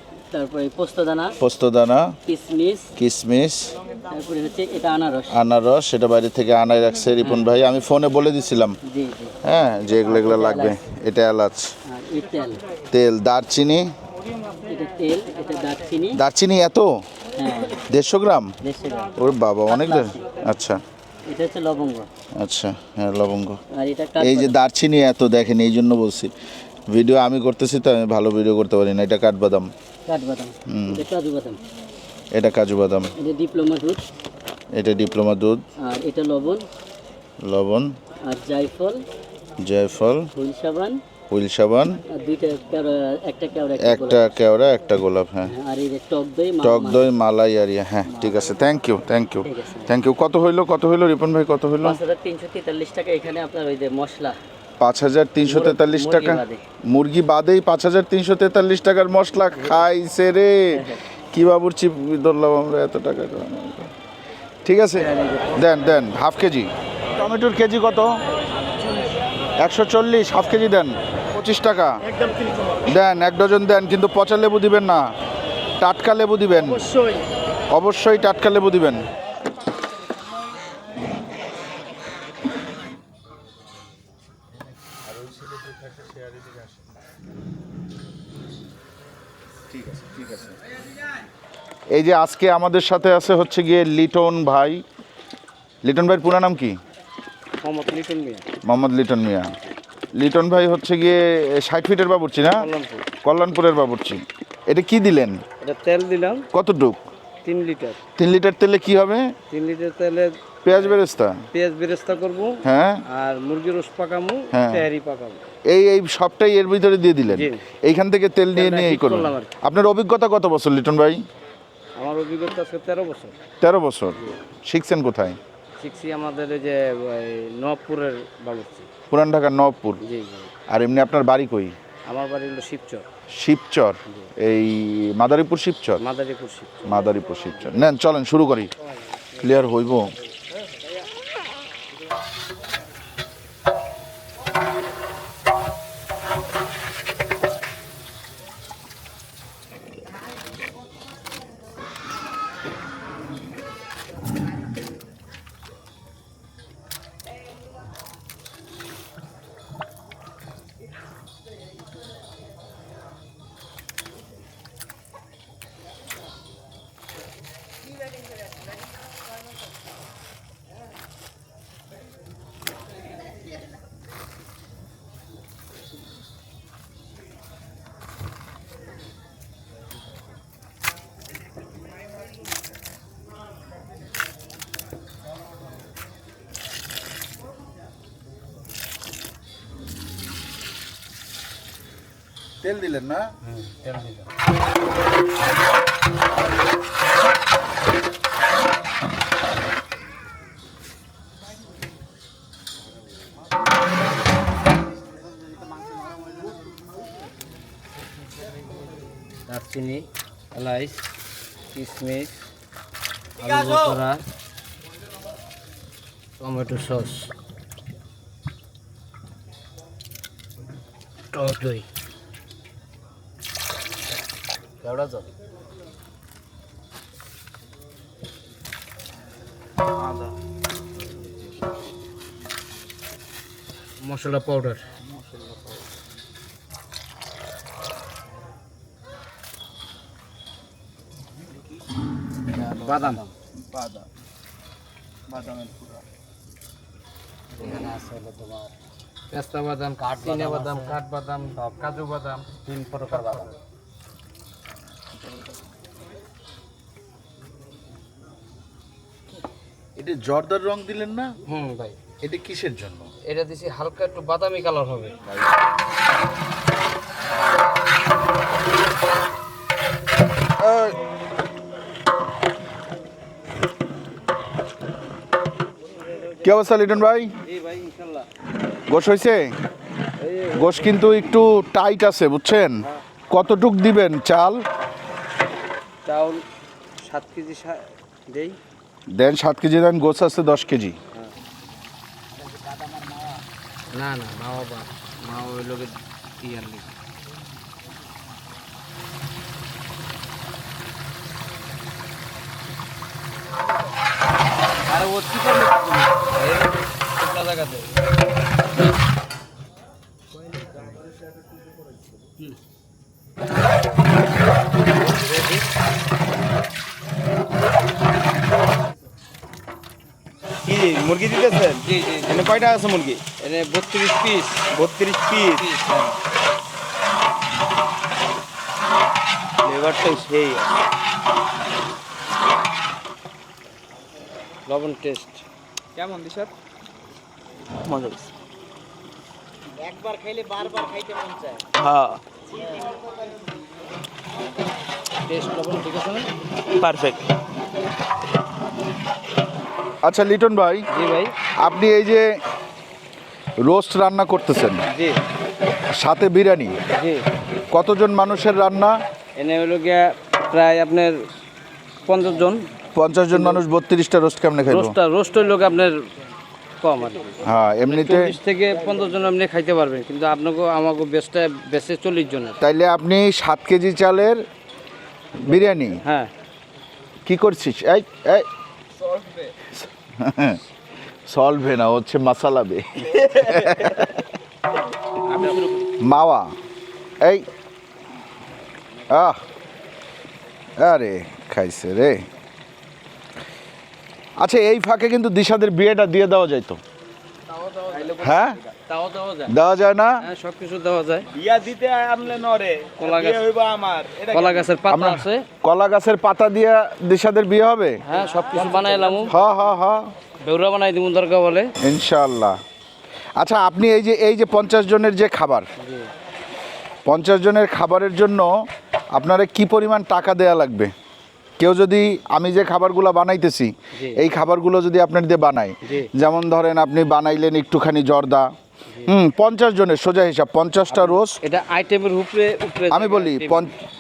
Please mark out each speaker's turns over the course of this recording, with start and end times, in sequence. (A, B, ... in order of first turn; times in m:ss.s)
0:00.3-0:01.4 A
0:01.4-0:02.2 B
0:02.3-0:02.9 A
0:03.0-0:03.8 B
0:04.1-0:05.3 A
0:05.3-0:08.8 B
0:07.2-0:07.5 A
0:08.9-0:09.4 A
0:09.4-0:11.7 B
0:10.1-0:10.8 A
0:11.9-0:12.6 A
0:12.9-0:13.9 B
0:14.7-0:16.2 A
0:16.1-0:16.9 B
0:17.4-0:17.8 A
0:17.9-0:18.5 B
0:18.6-0:19.1 A
0:19.2-0:20.8 B
0:19.7-0:20.4 A
0:21.3-0:22.1 A
0:22.4-0:23.6 B
0:23.7-0:24.6 A
0:24.2-0:26.3 B
0:26.9-0:29.7 B
0:30.1-0:31.6 A
0:30.7-0:31.1 B
0:32.3-0:33.1 B
0:33.2-0:34.1 A
0:34.7-0:35.7 B
0:35.8-0:36.7 A
0:37.4-0:38.0 B
0:38.2-0:39.0 A
0:39.6-0:40.3 B
0:40.4-0:41.0 A
0:41.3-0:42.0 B
0:42.1-0:44.4 A
0:43.8-0:45.5 B
0:45.4-0:47.1 A
0:46.6-0:52.0 B
0:48.1-0:48.5 A
0:49.4-0:49.9 A
0:51.8-0:54.4 A
0:54.8-1:03.9 B
0:55.4-0:56.6 A
1:04.6-1:08.2 B
1:09.6-1:12.0 B
1:12.9-1:15.1 B
1:15.8-1:16.9 B
1:17.7-1:19.1 B
1:30.0-1:30.4 B
1:31.9-1:34.8 B
1:35.8-1:36.8 B
1:37.6-1:38.5 C
1:38.6-1:39.5 B
1:40.2-1:42.7 B
1:42.5-1:43.1 C
1:43.2-1:45.4 B
1:45.6-1:46.5 C
1:46.5-1:47.0 B
1:47.4-1:48.0 C
1:48.2-1:49.3 B
1:49.5-1:55.4 C
1:50.6-1:51.4 B
1:52.6-1:53.0 B
1:54.5-1:54.9 B
1:55.7-2:01.2 B
1:57.3-1:57.6 C
1:58.5-1:59.5 C
2:02.0-2:03.3 C
2:03.6-2:05.4 B
2:05.8-2:08.9 C
2:09.1-2:10.0 B
2:10.0-2:10.5 C
2:10.7-2:11.8 B
2:12.1-2:13.1 C
2:13.3-2:16.0 B
2:16.0-2:17.8 C
2:16.8-2:18.7 B
2:19.4-2:20.1 B
3:12.6-3:13.3 B
3:13.4-3:14.3 C
3:29.5-3:31.1 C
3:31.7-3:32.3 C
3:33.4-3:34.2 C
3:36.4-3:37.3 C
3:41.3-3:41.9 C
3:44.8-3:45.3 C
3:50.0-3:50.4 D
3:54.0-3:55.6 C
4:02.7-4:03.3 C
4:03.7-4:04.0 B
4:05.3-4:06.0 B
4:07.6-4:08.0 C
4:07.7-4:08.6 A
4:09.3-4:13.6 C
4:10.2-4:10.9 A
4:20.0-4:21.3 B
4:21.5-4:22.0 C
4:22.2-4:23.1 B
4:23.3-4:25.2 C
4:30.6-4:31.0 B
4:36.4-4:37.3 B
4:37.4-4:38.3 C
4:38.9-4:39.5 B
4:40.2-4:40.8 C
4:40.5-4:44.6 B
4:46.0-4:46.4 C
4:47.0-4:48.6 C
4:49.1-4:51.0 B
4:53.9-4:56.9 C
5:04.9-5:07.9 C
5:15.1-5:15.6 C
5:20.6-5:23.2 D
5:21.8-5:22.5 C
5:23.4-5:24.7 C
5:24.7-5:25.6 D
5:25.5-5:26.2 C
5:29.6-5:30.7 D
5:34.7-5:35.4 C
5:36.0-5:36.5 D
5:37.8-5:38.3 D
5:41.8-5:42.2 D
5:45.2-5:46.3 C
5:46.8-5:47.2 D
5:50.0-5:50.9 B
5:50.9-5:51.3 C
5:51.6-5:52.3 B
5:53.6-5:54.8 B
5:54.9-5:55.2 C
5:55.9-5:56.8 B
5:56.9-5:57.2 C
5:57.7-5:59.0 B
5:59.4-6:01.2 C
6:02.0-6:02.6 C
6:03.0-6:05.0 B
6:03.3-6:03.6 C
6:04.7-6:06.0 C
6:06.8-6:12.6 C
6:07.4-6:08.4 B
6:12.6-6:14.4 B
6:15.4-6:16.0 B
6:16.0-6:16.3 C
6:17.3-6:18.5 B
6:19.0-6:19.5 D
6:19.7-6:20.6 B
6:21.3-6:24.2 B
6:23.5-6:23.9 D
6:25.2-6:25.9 D
6:26.0-6:26.5 B
6:29.1-6:29.4 B
6:30.8-6:32.2 B
6:34.4-6:36.8 B
6:37.5-6:39.5 C
6:38.2-6:38.6 B
6:39.5-6:40.2 B
6:40.2-6:41.3 C
6:41.3-6:44.7 D
6:43.0-6:43.5 C
6:44.3-6:45.4 C
6:44.9-6:48.0 B
6:48.0-6:49.4 C
6:49.2-6:50.1 B
6:50.4-6:51.7 C
6:51.8-6:52.6 B
6:53.4-6:55.7 B
6:55.8-6:56.1 C
6:57.0-6:58.5 B
6:59.1-7:00.9 B
7:01.6-7:08.5 B
7:03.9-7:04.2 C
7:08.9-7:09.1 C
7:09.1-7:11.4 B
7:10.9-7:13.7 C
7:12.9-7:13.7 B